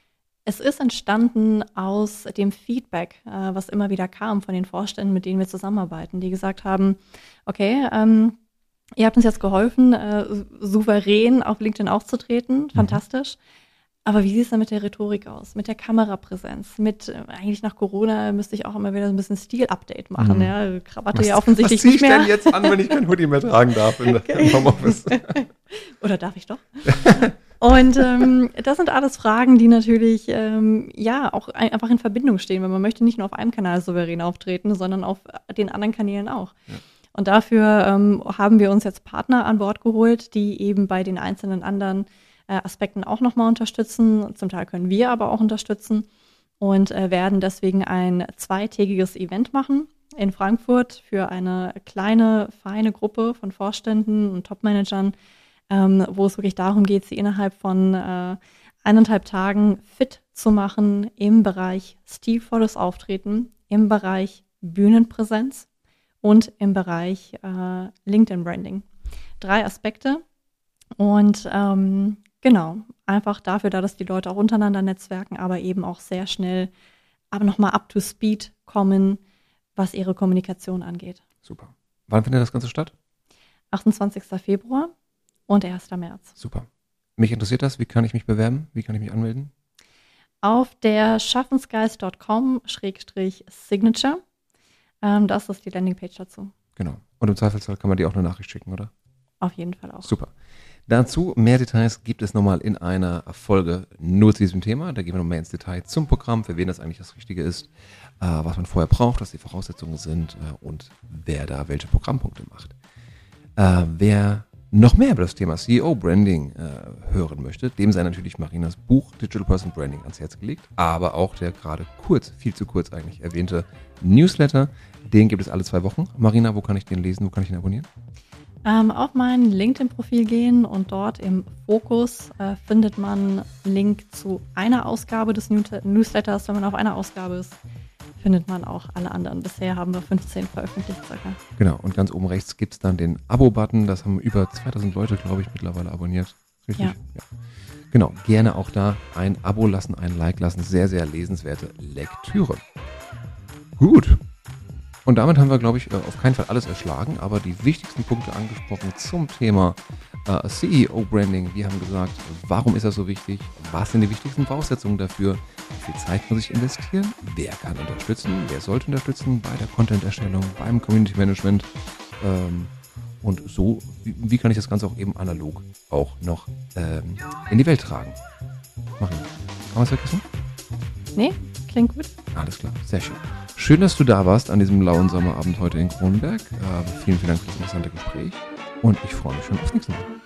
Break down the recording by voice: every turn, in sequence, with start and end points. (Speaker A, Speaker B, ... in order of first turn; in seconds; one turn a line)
Speaker A: 0.5-8.3
Speaker A: 9.0-13.4
Speaker B: 12.8-13.0
Speaker A: 14.1-22.8
Speaker B: 20.2-20.5
Speaker B: 21.1-25.4
Speaker A: 24.0-36.6
Speaker B: 26.9-27.3
Speaker A: 37.1-46.1
Speaker A: 46.6-55.1
Speaker A: 55.7-65.7
Speaker A: 66.2-68.9
Speaker A: 69.4-70.2
Speaker A: 71.0-76.7
Speaker A: 77.3-79.2
Speaker A: 79.8-81.2
Speaker B: 81.4-82.9
Speaker A: 83.7-84.9
Speaker A: 85.5-86.3
Speaker B: 86.4-89.5
Speaker A: 90.4-94.2
Speaker A: 95.0-96.5
Speaker B: 96.8-98.9
Speaker A: 99.4-100.1
Speaker B: 100.0-100.3
Speaker B: 100.9-112.8
Speaker B: 113.6-127.9
Speaker A: 128.7-137.6
Speaker A: 138.2-141.4
Speaker B: 141.6-147.3
Speaker B: 147.9-152.6
Speaker B: 153.8-154.2
Speaker B: 155.1-178.2
Speaker B: 179.0-180.2
Speaker A: 181.2-182.1
Speaker B: 182.3-190.1